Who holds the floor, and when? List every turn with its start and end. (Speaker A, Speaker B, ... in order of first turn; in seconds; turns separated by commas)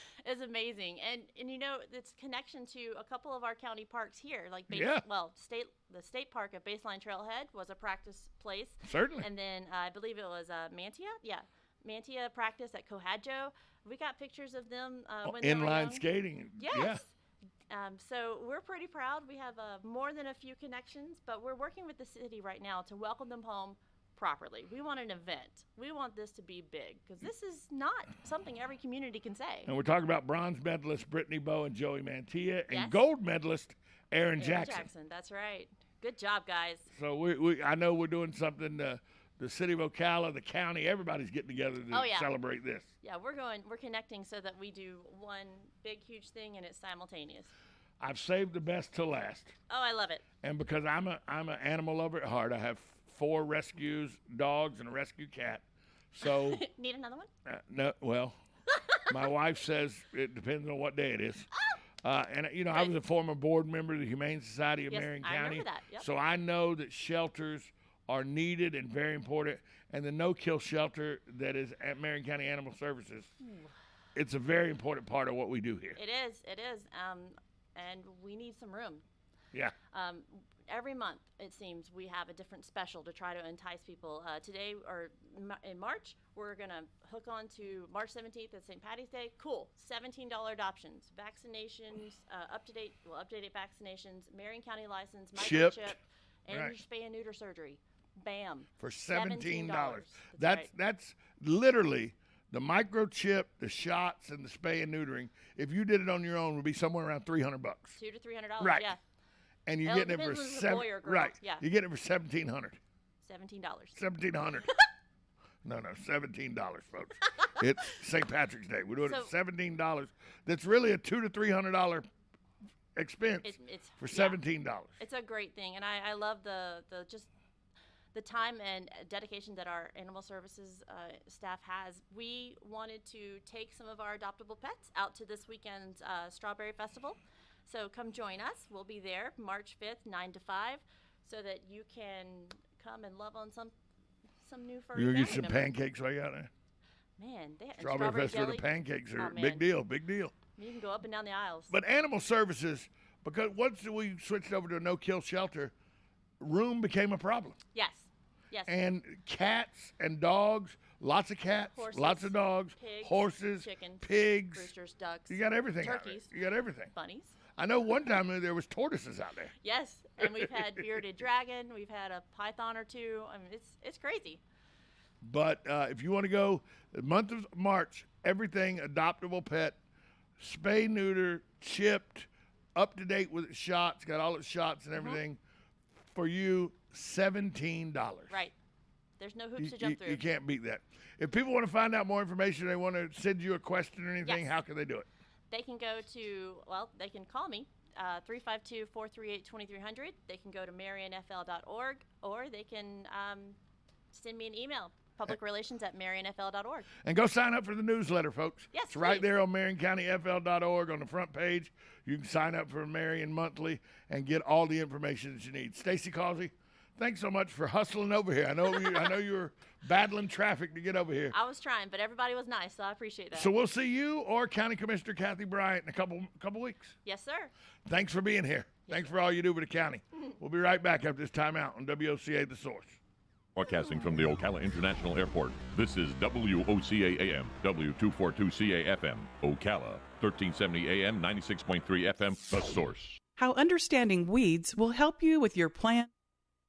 Speaker A: 0.2-16.1, Speaker B: 4.7-5.0, Speaker B: 8.8-9.3, Speaker B: 15.2-17.0, Speaker A: 16.6-17.1, Speaker A: 17.7-29.7, Speaker B: 29.7-34.9, Speaker A: 32.7-33.0, Speaker A: 34.4-36.9, Speaker B: 36.9-42.9, Speaker A: 41.9-42.3, Speaker A: 43.0-47.5, Speaker B: 48.0-49.5, Speaker A: 49.7-50.2, Speaker B: 50.4-56.6, Speaker A: 56.2-57.3, Speaker B: 57.5-58.4, Speaker B: 59.0-61.5, Speaker B: 62.0-73.3, Speaker A: 64.9-66.1, Speaker B: 74.2-76.0, Speaker A: 76.0-79.0, Speaker A: 79.9-100.7, Speaker B: 95.3-96.0, Speaker B: 96.5-96.8, Speaker B: 98.8-108.0, Speaker A: 108.0-109.0, Speaker B: 108.6-108.9, Speaker B: 109.7-112.8, Speaker A: 109.8-111.6, Speaker A: 113.2-114.0, Speaker B: 114.0-114.7, Speaker B: 115.6-122.0, Speaker A: 119.0-119.3, Speaker B: 123.0-125.0, Speaker A: 123.4-124.4, Speaker A: 125.0-127.3, Speaker A: 128.1-143.7, Speaker A: 144.4-145.7, Speaker B: 144.9-146.5, Speaker A: 147.2-149.6, Speaker B: 147.8-150.3, Speaker A: 150.6-151.7, Speaker B: 151.7-155.7, Speaker B: 156.4-157.6, Speaker A: 157.7-158.7, Speaker B: 158.7-164.7, Speaker A: 161.7-166.3, Speaker B: 165.3-166.9, Speaker A: 166.9-167.3, Speaker B: 167.6-169.5, Speaker A: 169.6-174.4, Speaker B: 175.2-179.8, Speaker B: 180.4-185.4, Speaker B: 186.1-188.4, Speaker A: 189.2-190.2, Speaker B: 189.6-195.1, Speaker A: 194.2-194.5, Speaker A: 195.5-203.6, Speaker A: 204.1-206.9, Speaker B: 207.0-221.3, Speaker A: 208.7-209.3, Speaker A: 221.3-223.5, Speaker B: 223.3-226.9, Speaker A: 227.0-227.5, Speaker B: 227.9-233.0, Speaker A: 228.9-229.1, Speaker C: 233.6-243.2, Speaker D: 243.3-246.1